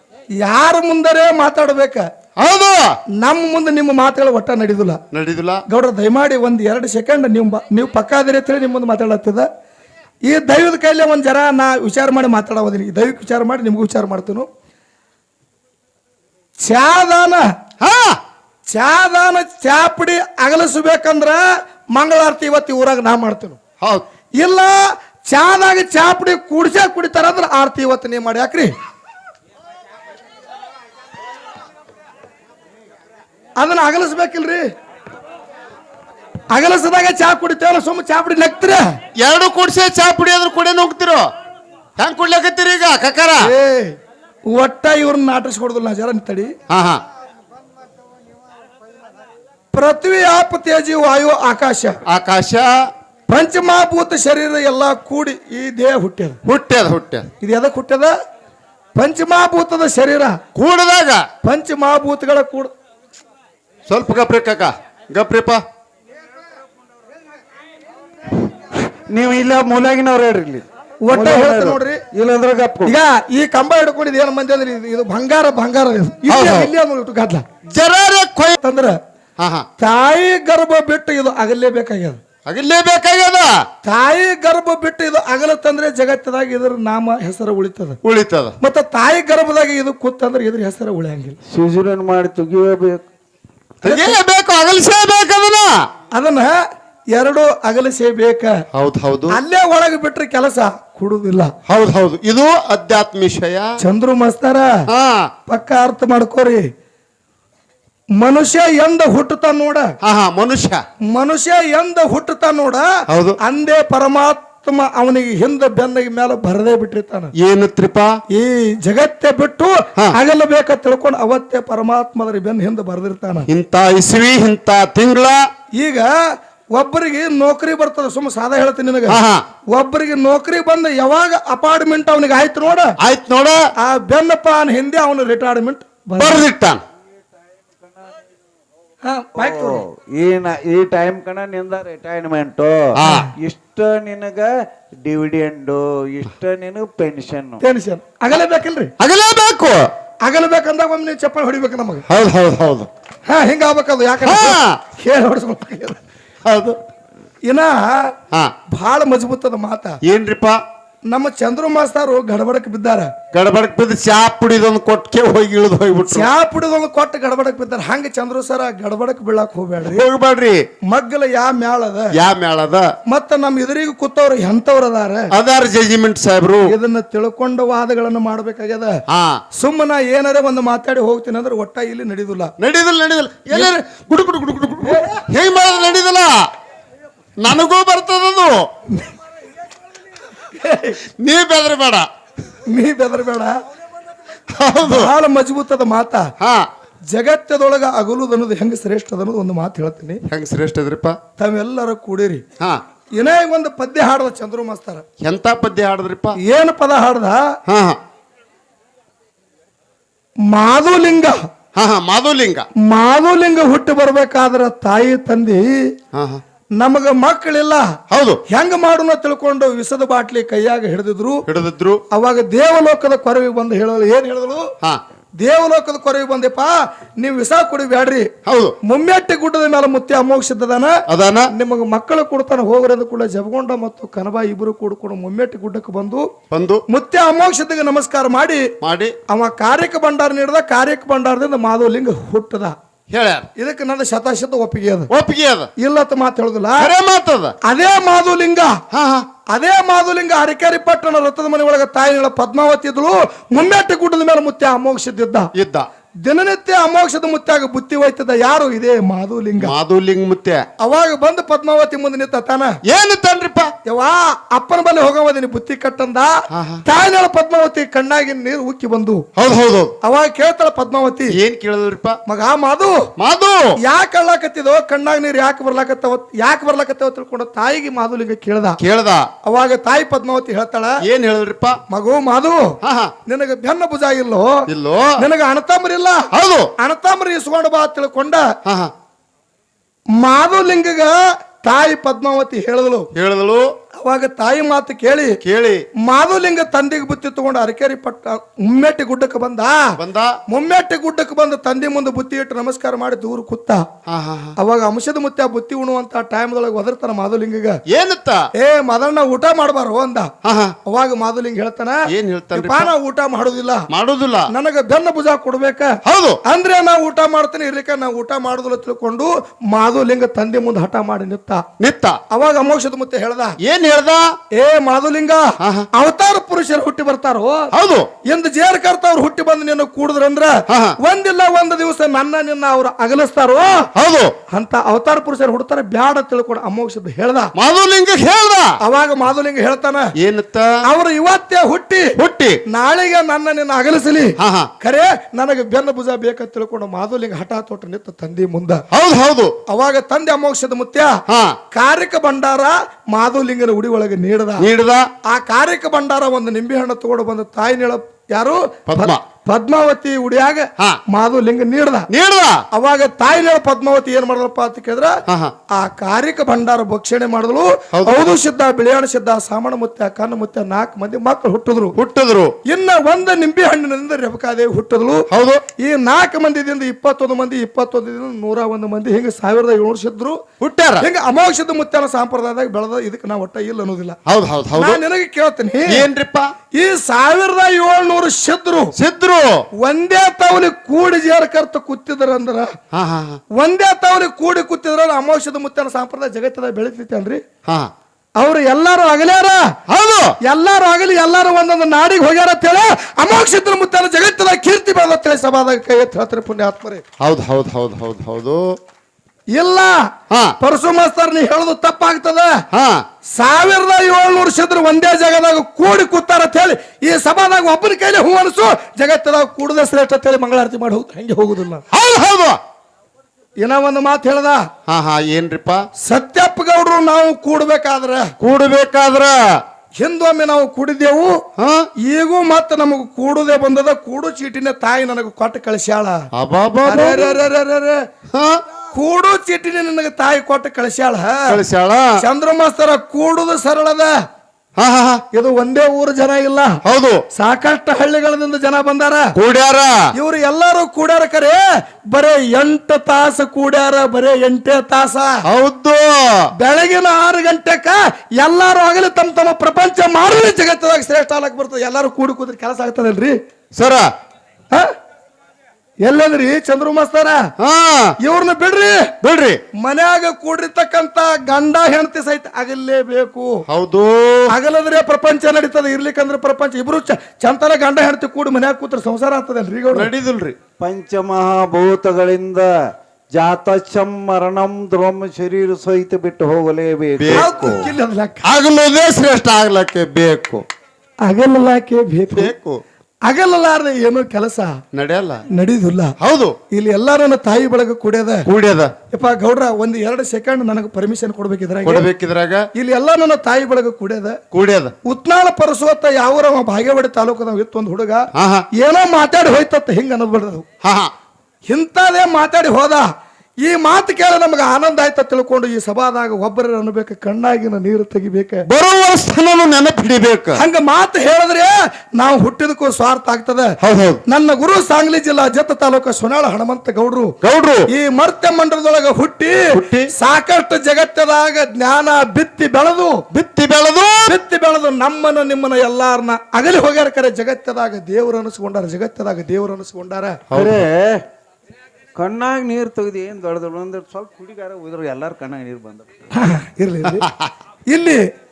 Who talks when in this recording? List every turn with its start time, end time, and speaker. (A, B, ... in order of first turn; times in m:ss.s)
0:00.4-0:02.1 A
0:02.4-0:03.0 B
0:03.2-0:05.0 A
0:05.1-0:05.6 B
0:05.7-0:09.5 A
0:10.3-0:14.5 A
0:16.6-0:17.4 A
0:17.8-0:18.2 B
0:18.7-0:23.6 A
0:24.4-0:28.7 A
0:33.6-0:34.7 A
0:36.5-0:39.0 A
0:39.2-0:41.3 B
0:42.0-0:43.5 B
0:43.4-0:46.6 A
0:46.7-0:47.0 B
0:49.7-0:52.0 A
0:52.1-0:52.9 B
0:53.3-0:56.4 A
0:56.4-0:57.3 B
0:57.4-0:58.1 A
0:59.0-1:00.4 A
1:00.6-1:01.3 B
1:01.4-1:02.7 A
1:03.9-1:05.6 B
1:08.4-1:13.0 C
1:11.0-1:12.0 A
1:12.9-1:17.4 A
1:16.3-1:16.7 B
1:17.7-1:18.6 B
1:18.6-1:19.0 A
1:19.4-1:19.7 B
1:19.8-1:22.2 A
1:22.5-1:23.6 B
1:23.8-1:28.0 A
1:28.0-1:28.6 B
1:28.6-1:31.4 A
1:31.5-1:33.0 C
1:33.8-1:34.2 A
1:33.8-1:35.9 B
1:36.1-1:38.6 A
1:38.7-1:39.4 B
1:39.3-1:41.5 A
1:41.7-1:43.8 B
1:43.8-1:44.8 A
1:44.9-1:45.3 B
1:45.5-1:46.7 A
1:48.2-1:49.9 A
1:50.0-1:50.8 B
1:51.0-1:52.9 A
1:53.1-1:53.4 B
1:53.4-1:57.3 A
1:57.4-1:58.2 B
1:58.3-2:03.5 A
2:03.5-2:05.5 B
2:05.7-2:12.9 A
2:09.1-2:09.4 B
2:13.0-2:13.6 B
2:13.8-2:16.4 A
2:16.2-2:16.8 B
2:19.0-2:19.8 A
2:19.4-2:27.6 C
2:22.9-2:23.3 B
2:23.0-2:23.3 A
2:27.6-2:28.9 A
2:29.0-2:29.9 B
2:30.2-2:32.0 A
2:32.1-2:32.9 B
2:33.3-2:36.0 A
2:34.2-2:34.8 B
2:36.4-2:36.8 B
2:37.5-2:38.1 A
2:38.7-2:40.0 A
2:40.0-2:40.6 B
2:41.1-2:43.1 A
2:43.3-2:46.3 B
2:46.1-2:50.1 A
2:49.8-2:50.6 B
2:50.9-2:52.2 A
2:52.1-2:52.9 B
2:53.1-2:55.3 A
2:55.3-2:56.7 B
2:56.7-2:59.0 A
2:59.1-2:59.4 B
2:59.6-3:02.5 A
3:02.6-3:06.5 B
3:07.4-3:08.7 B
3:10.5-3:11.0 A
3:11.1-3:12.1 B
3:12.7-3:13.6 A
3:14.5-3:15.1 B
3:14.8-3:16.3 A
3:16.4-3:16.7 B
3:17.1-3:20.2 A
3:20.3-3:21.2 B
3:21.4-3:22.4 A
3:23.2-3:25.0 A
3:25.2-3:26.4 B
3:26.4-3:27.5 A
3:27.7-3:28.0 B
3:30.5-3:31.4 A
3:31.8-3:32.7 B
3:32.8-3:35.9 A
3:36.1-3:36.4 B
3:36.8-3:38.0 A
3:38.1-3:38.4 B
3:38.5-3:41.4 A
3:41.5-3:42.0 B
3:42.1-3:44.7 A
3:45.4-3:48.3 A
3:48.5-3:48.8 B
3:48.8-3:56.3 A
3:51.1-3:51.5 B
3:56.5-3:56.8 B
3:56.9-3:58.7 A
3:58.8-3:59.2 B
3:59.3-4:02.8 A
4:03.1-4:03.5 B
4:03.6-4:05.1 A
4:05.1-4:05.7 B
4:05.8-4:06.9 A
4:06.8-4:07.6 B
4:07.6-4:08.8 A
4:08.9-4:09.3 B
4:09.5-4:15.5 A
4:15.5-4:15.9 B
4:16.2-4:19.7 A
4:19.6-4:20.7 B
4:20.8-4:22.8 A
4:22.9-4:23.7 B
4:23.8-4:29.2 A
4:26.5-4:26.8 B
4:29.4-4:29.9 B
4:30.0-4:31.4 A
4:31.3-4:32.2 B
4:32.3-4:33.1 A
4:33.2-4:33.8 B
4:33.8-4:38.8 A
4:38.8-4:39.3 B
4:39.4-4:41.0 A
4:41.0-4:41.8 B
4:41.9-4:44.7 A
4:42.8-4:43.1 B
4:44.7-4:45.2 B
4:45.2-4:48.5 A
4:46.3-4:46.7 B
4:48.6-4:48.9 B
4:50.2-4:53.1 A
4:53.1-4:53.7 B
4:54.0-4:55.4 A
4:55.4-4:55.8 B
4:56.0-5:00.0 A
5:00.0-5:00.4 B
5:00.5-5:03.8 A
5:04.1-5:04.6 B
5:04.6-5:07.8 A
5:07.9-5:08.5 B
5:08.6-5:10.3 A
5:10.4-5:10.8 B
5:10.9-5:13.9 A
5:12.1-5:12.9 B
5:13.9-5:14.5 B
5:14.5-5:21.6 A
5:16.0-5:16.4 B
5:21.8-5:22.2 B
5:22.3-5:23.6 A
5:23.6-5:24.4 B
5:24.5-5:27.7 A
5:25.6-5:25.9 B
5:27.7-5:28.1 B
5:28.2-5:33.9 A
5:30.7-5:31.0 B
5:34.0-5:34.4 B
5:34.5-5:37.5 A
5:37.6-5:38.8 B
5:38.8-5:40.1 A
5:40.2-5:40.8 B
5:40.8-5:42.1 A
5:42.2-5:42.6 B
5:42.7-5:48.8 A
5:44.4-5:44.7 B
5:48.9-5:49.6 B
5:49.7-5:51.2 A
5:51.3-5:51.6 B
5:51.7-5:54.7 A
5:54.6-5:55.1 B
5:55.3-6:02.1 A
5:58.9-5:59.2 B
6:02.1-6:02.6 B
6:02.7-6:05.2 A
6:05.3-6:05.5 B
6:05.7-6:12.0 A
6:07.9-6:08.3 B
6:12.0-6:12.6 B
6:12.7-6:15.3 A
6:15.3-6:15.6 B
6:15.8-6:20.4 A
6:20.6-6:21.1 B
6:21.0-6:24.2 A
6:24.3-6:25.0 B
6:24.8-6:26.1 A
6:25.9-6:26.5 B
6:26.7-6:28.9 A
6:29.0-6:29.7 B
6:29.8-6:32.8 A
6:32.9-6:33.4 B
6:33.5-6:37.4 A
6:37.7-6:37.9 B
6:38.4-6:39.7 A
6:39.9-6:40.4 B
6:40.4-6:47.0 A
6:47.2-6:48.7 B
6:49.6-6:50.0 A
6:50.3-6:50.6 B
6:50.6-6:52.6 A
6:52.7-6:53.0 B
6:53.4-7:01.8 A
7:01.9-7:02.6 B
7:03.6-7:04.7 A
7:04.9-7:05.9 B
7:06.0-7:08.3 A
7:08.4-7:09.6 B
7:10.0-7:11.4 A
7:11.6-7:11.9 B
7:12.0-7:16.3 A
7:16.3-7:17.4 B
7:16.8-7:18.1 A
7:18.3-7:18.6 B
7:18.9-7:21.6 A
7:21.5-7:22.2 B
7:22.2-7:24.1 A
7:24.8-7:25.2 B
7:25.3-7:26.8 A
7:26.8-7:27.2 B
7:27.3-7:29.3 A
7:29.4-7:30.1 B
7:30.2-7:35.4 A
7:35.4-7:36.5 B
7:36.6-7:43.4 A
7:43.8-7:44.1 B
7:46.0-7:47.5 A
7:47.6-7:48.2 B
7:48.2-7:49.1 A
7:49.2-7:49.6 B
7:49.8-7:53.6 A
7:53.7-7:54.5 B
7:54.5-8:00.1 A
7:59.9-8:00.6 B
8:00.8-8:02.8 C
8:03.3-8:07.8 C
8:07.2-8:07.9 B
8:07.3-8:08.4 A
8:08.4-8:10.6 B
8:11.2-8:12.5 A
8:12.3-8:12.8 B
8:13.2-8:14.8 A
8:14.9-8:15.4 B
8:15.5-8:16.1 A
8:16.2-8:16.6 B
8:16.7-8:18.5 A
8:18.5-8:18.9 B
8:19.1-8:22.1 A
8:21.8-8:22.7 B
8:22.8-8:24.4 A
8:24.5-8:24.9 B
8:25.0-8:30.7 A
8:28.4-8:28.7 B
8:30.8-8:31.1 B
8:31.7-8:33.1 A
8:33.6-8:38.6 A
8:38.7-8:40.6 B
8:40.6-8:43.8 A
8:43.8-8:44.2 B
8:44.3-8:47.3 A
8:47.4-8:47.9 B
8:47.9-8:53.2 A
8:49.7-8:50.1 B
8:53.3-8:54.4 B
8:54.2-9:00.4 A
9:00.5-9:00.8 B
9:00.5-9:01.2 C
9:02.2-9:06.1 C
9:06.4-9:07.3 A
9:07.0-9:07.5 B
9:07.9-9:08.2 A